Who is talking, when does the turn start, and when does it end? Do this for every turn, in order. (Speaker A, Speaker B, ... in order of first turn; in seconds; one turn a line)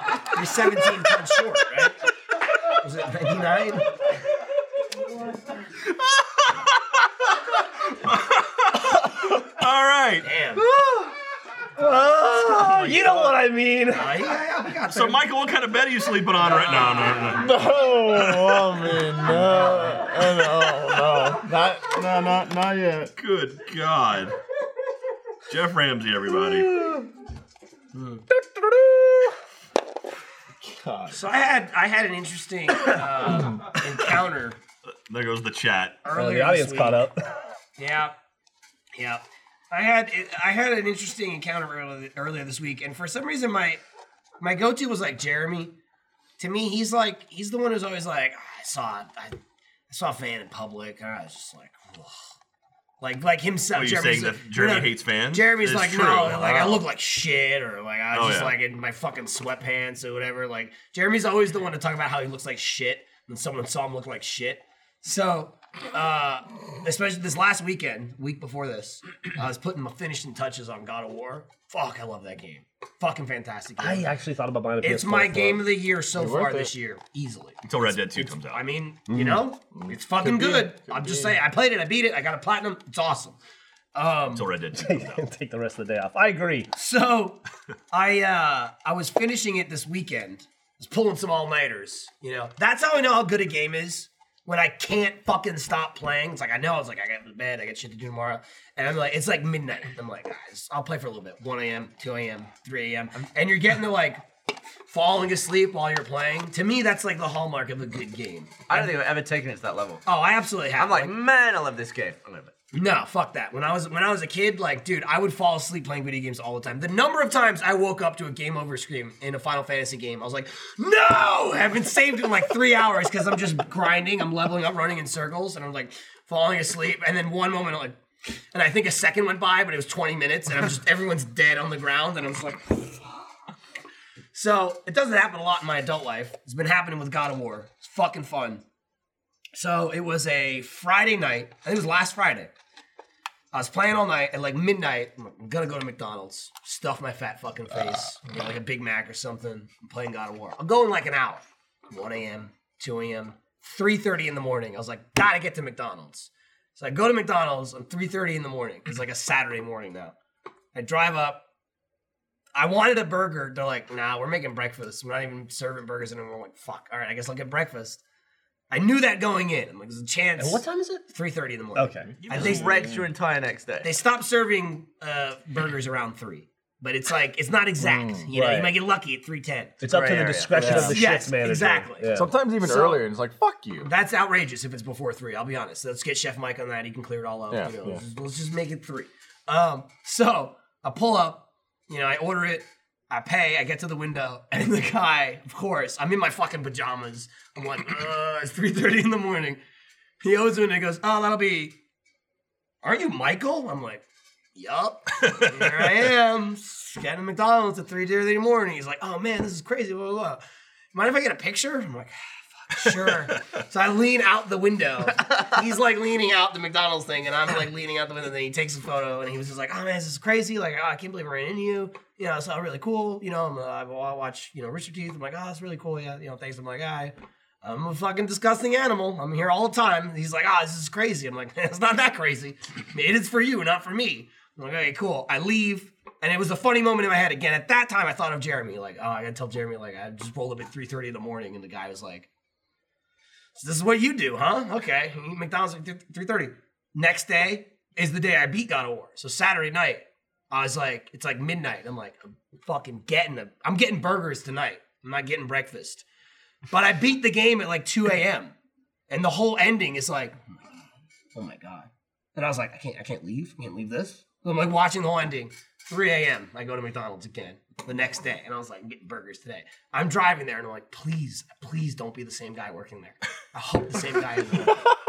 Speaker A: 0.3-2.0
Speaker A: 2.7-3.9
Speaker B: 6.0-7.1
Speaker B: 7.8-10.3
Speaker A: 10.2-10.7
Speaker C: 10.6-11.1
Speaker C: 11.8-14.1
Speaker A: 12.8-13.2
Speaker A: 13.9-15.3
Speaker B: 14.9-17.5
Speaker A: 16.5-17.2
Speaker D: 17.4-23.1
Speaker B: 18.0-19.1
Speaker B: 20.2-21.1
Speaker B: 23.2-24.4
Speaker B: 25.5-26.9
Speaker A: 27.9-28.3
Speaker D: 30.6-31.2
Speaker A: 31.1-34.6
Speaker B: 34.9-36.0
Speaker A: 36.0-37.1
Speaker C: 36.1-37.2
Speaker A: 37.8-38.1
Speaker A: 39.0-43.8
Speaker A: 44.4-45.7
Speaker A: 46.4-49.4
Speaker A: 49.9-52.1
Speaker A: 53.0-74.1
Speaker B: 53.7-56.8
Speaker B: 58.1-58.5
Speaker C: 73.8-75.7
Speaker A: 74.8-83.4
Speaker D: 76.1-76.7
Speaker B: 77.7-78.6
Speaker C: 79.1-79.5
Speaker D: 79.7-81.4
Speaker A: 84.0-84.5
Speaker B: 84.3-85.2
Speaker C: 84.7-86.7
Speaker A: 86.7-87.4
Speaker A: 87.9-104.2
Speaker A: 104.9-108.9
Speaker E: 108.7-110.0
Speaker A: 110.0-111.1
Speaker E: 110.8-112.5
Speaker A: 112.7-128.0
Speaker A: 128.5-133.1
Speaker A: 134.3-138.6
Speaker A: 139.5-142.5
Speaker A: 143.5-160.2
Speaker A: 160.7-161.4
Speaker A: 162.6-168.0
Speaker A: 168.7-172.7
Speaker C: 170.4-171.1
Speaker C: 171.8-172.1
Speaker E: 172.2-173.9
Speaker D: 172.3-173.1
Speaker A: 173.8-183.0
Speaker D: 177.8-178.3
Speaker C: 178.3-178.8
Speaker C: 179.8-182.3
Speaker E: 179.9-180.5
Speaker D: 180.5-181.0
Speaker D: 182.1-183.9
Speaker A: 183.8-199.6
Speaker D: 187.5-188.0
Speaker A: 200.2-201.8
Speaker A: 202.8-204.0
Speaker A: 204.6-210.4
Speaker B: 205.2-205.9
Speaker A: 210.9-242.3
Speaker A: 243.6-256.1
Speaker A: 256.7-258.5
Speaker A: 259.1-260.5
Speaker A: 261.4-274.9